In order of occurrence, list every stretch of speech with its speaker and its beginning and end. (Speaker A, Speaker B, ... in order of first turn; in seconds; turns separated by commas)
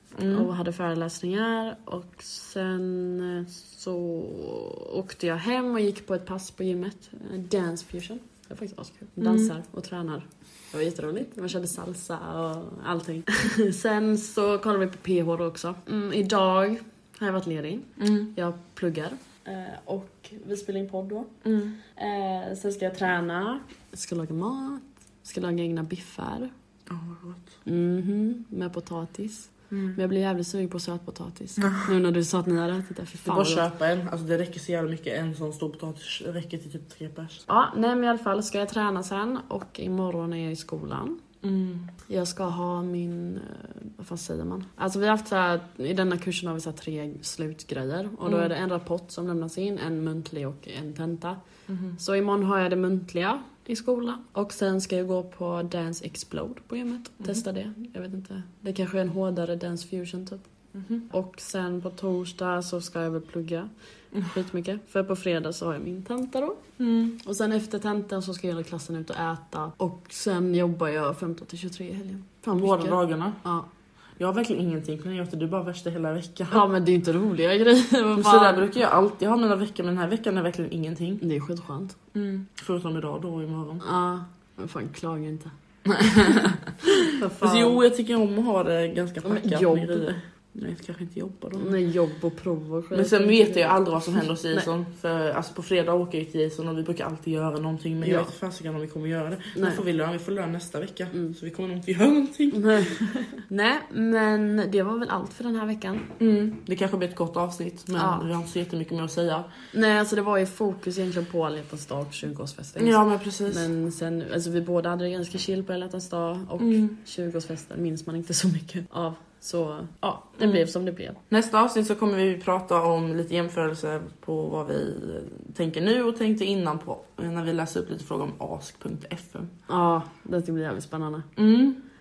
Speaker A: 0.2-0.5, Speaker B: 0.3-21.3, Speaker A: 9.2-9.5, Speaker A: 18.0-18.3, Speaker A: 21.4-21.8, Speaker B: 22.0-26.5, Speaker A: 26.9-27.6, Speaker B: 27.6-33.7, Speaker A: 29.7-30.0, Speaker A: 31.6-31.9, Speaker A: 33.3-37.4, Speaker B: 37.5-41.2, Speaker A: 41.4-41.9, Speaker B: 42.1-51.4, Speaker A: 48.2-48.5, Speaker A: 51.7-52.0, Speaker B: 52.0-60.5, Speaker A: 60.8-61.0, Speaker B: 61.1-66.6, Speaker A: 66.8-67.2, Speaker B: 67.2-73.7, Speaker A: 72.6-73.4, Speaker A: 74.2-76.7, Speaker B: 76.5-78.7, Speaker A: 78.2-81.2, Speaker B: 81.2-82.0, Speaker A: 82.1-83.8, Speaker B: 83.8-85.5, Speaker A: 85.8-91.7, Speaker B: 87.0-87.8, Speaker B: 89.2-90.1, Speaker B: 91.5-93.8, Speaker A: 92.9-103.0, Speaker B: 98.0-98.3, Speaker B: 99.5-99.8, Speaker B: 102.5-106.1, Speaker A: 106.2-109.5, Speaker B: 108.0-108.2, Speaker B: 109.7-121.2, Speaker A: 112.8-113.7, Speaker A: 116.6-117.0, Speaker A: 121.3-129.5, Speaker B: 129.7-131.3, Speaker A: 131.4-131.8